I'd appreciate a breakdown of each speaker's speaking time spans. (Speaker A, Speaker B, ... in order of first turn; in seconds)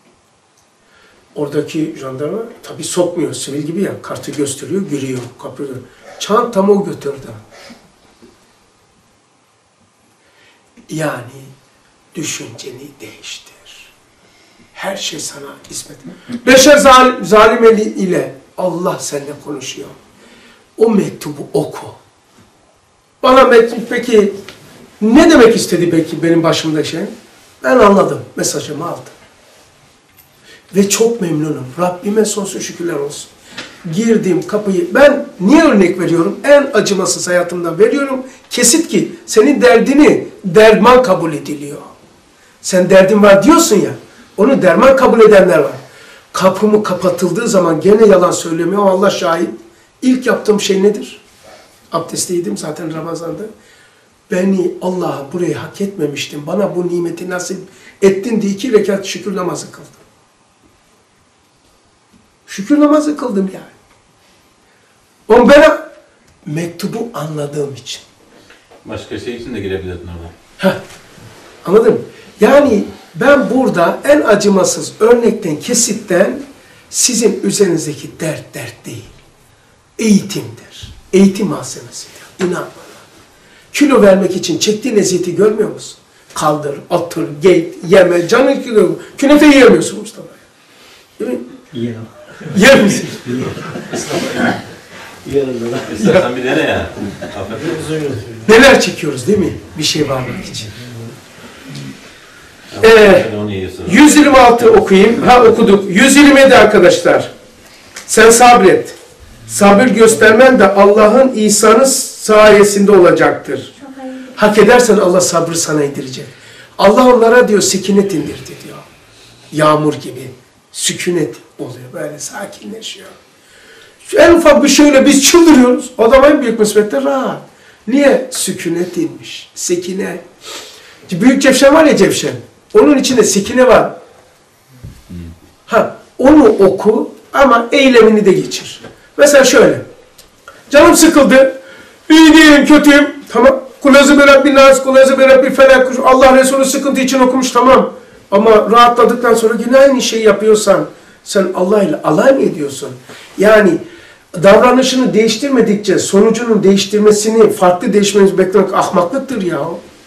Speaker A: 1.4-7.4, 10.9-11.5, 12.1-13.9, 14.7-20.0, 20.8-22.0, 23.2-24.4, 25.0-29.1, 30.7-33.3, 33.9-41.9, 42.6-45.8, 46.3-51.2, 51.9-53.5, 54.3-60.0, 62.5-63.7, 65.3-65.8, 66.5-68.0, 71.6-79.1, 80.0-83.0, 83.7-90.4, 91.2-91.5, 92.5-93.2, 98.5-100.7, 102.8-103.3, 103.8-107.3, 108.1-109.0, 109.5-118.8, 119.5-123.2, 124.0-130.2, 131.1-134.0, 135.7-139.8, 140.7-141.6, 142.1-153.8, 154.3-159.8
Speaker B: 68.8-70.3, 95.8-98.2, 102.7-104.1
Speaker C: 91.7-92.1, 93.2-94.5, 95.2-95.9